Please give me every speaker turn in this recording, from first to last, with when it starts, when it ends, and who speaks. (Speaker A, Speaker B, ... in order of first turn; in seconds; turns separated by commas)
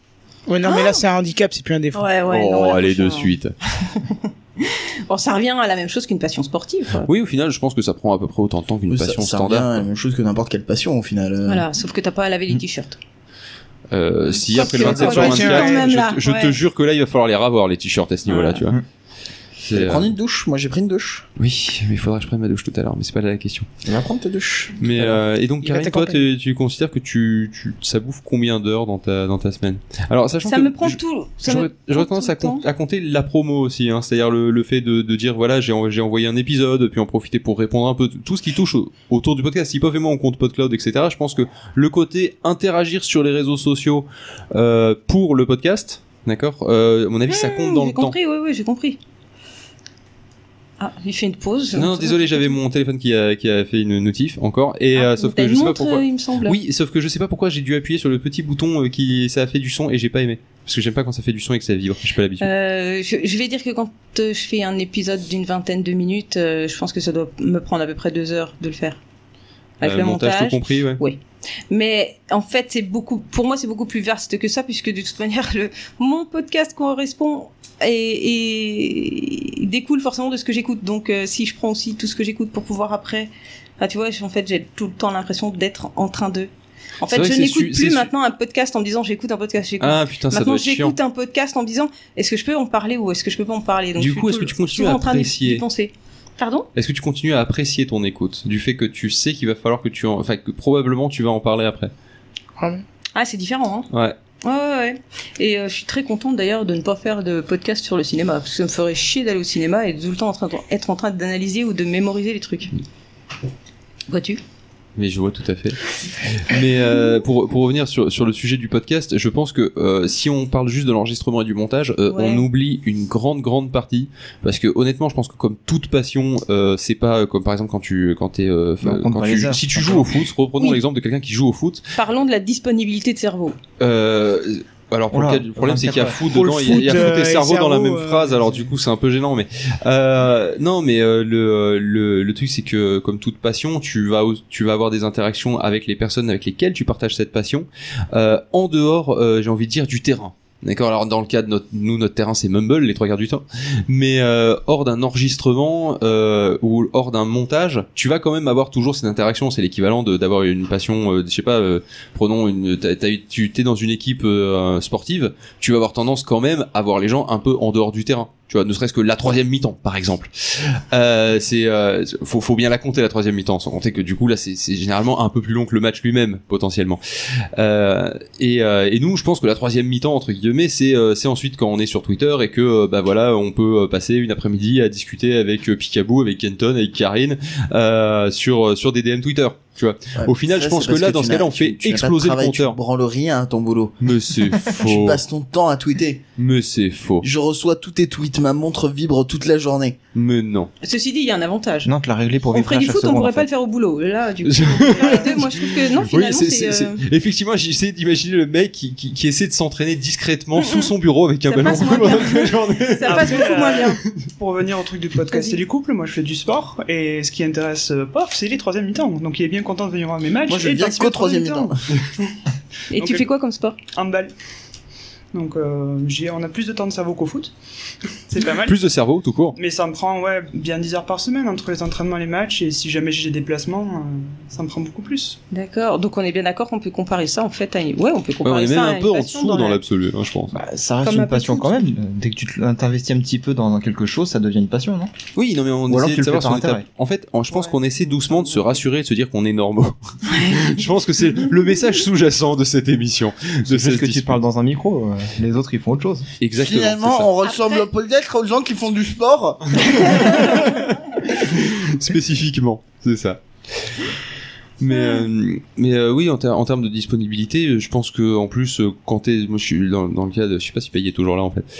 Speaker A: 0.5-2.0, Speaker B: 0.6-1.0, Speaker B: 1.9-7.1, Speaker C: 2.3-3.5, Speaker C: 7.0-9.7, Speaker D: 8.9-11.6, Speaker B: 11.4-13.0, Speaker C: 13.9-18.8, Speaker B: 14.5-16.5, Speaker A: 14.8-15.8, Speaker B: 18.3-18.6, Speaker C: 19.6-20.1, Speaker D: 19.7-21.2, Speaker C: 21.4-23.7, Speaker D: 23.9-24.8, Speaker C: 24.8-48.1, Speaker A: 25.6-26.2, Speaker B: 30.4-32.6, Speaker B: 47.3-49.0, Speaker B: 50.8-52.6, Speaker C: 51.7-62.5, Speaker B: 54.9-56.6, Speaker B: 62.4-69.0, Speaker B: 69.8-86.5, Speaker C: 69.8-71.0, Speaker B: 87.0-96.7, Speaker C: 87.1-88.1, Speaker C: 89.8-90.9, Speaker C: 94.0-95.6, Speaker C: 96.7-101.9, Speaker A: 102.6-102.8, Speaker B: 103.1-103.9, Speaker C: 103.9-104.2, Speaker B: 104.4-112.7, Speaker B: 114.1-114.4, Speaker C: 115.0-131.9, Speaker B: 122.1-122.4, Speaker E: 128.8-130.1, Speaker B: 131.9-133.6, Speaker C: 133.8-177.0, Speaker E: 135.1-136.2, Speaker A: 136.3-138.6, Speaker C: 177.6-192.8, Speaker D: 190.2-196.2, Speaker C: 194.0-195.2, Speaker C: 196.4-197.2, Speaker D: 197.2-200.0, Speaker C: 200.1-200.7, Speaker B: 200.8-201.9, Speaker E: 201.8-203.5, Speaker B: 202.5-207.0, Speaker C: 204.4-213.9, Speaker B: 210.6-210.9, Speaker B: 211.5-214.0, Speaker F: 213.0-221.7, Speaker B: 215.3-215.6, Speaker D: 220.5-221.8, Speaker B: 222.9-223.8, Speaker F: 222.9-223.3, Speaker F: 223.9-224.3, Speaker F: 225.3-227.5, Speaker F: 228.3-228.8, Speaker C: 228.6-229.6, Speaker F: 229.5-235.4, Speaker B: 235.5-239.8, Speaker C: 238.4-240.6, Speaker E: 240.5-245.1, Speaker B: 241.0-241.8, Speaker C: 245.3-254.4, Speaker E: 245.9-246.8, Speaker B: 250.3-250.8, Speaker E: 253.7-256.2, Speaker C: 256.4-257.3, Speaker D: 256.6-260.5, Speaker B: 257.5-257.8, Speaker C: 260.1-263.9, Speaker C: 264.8-271.6, Speaker B: 264.9-265.2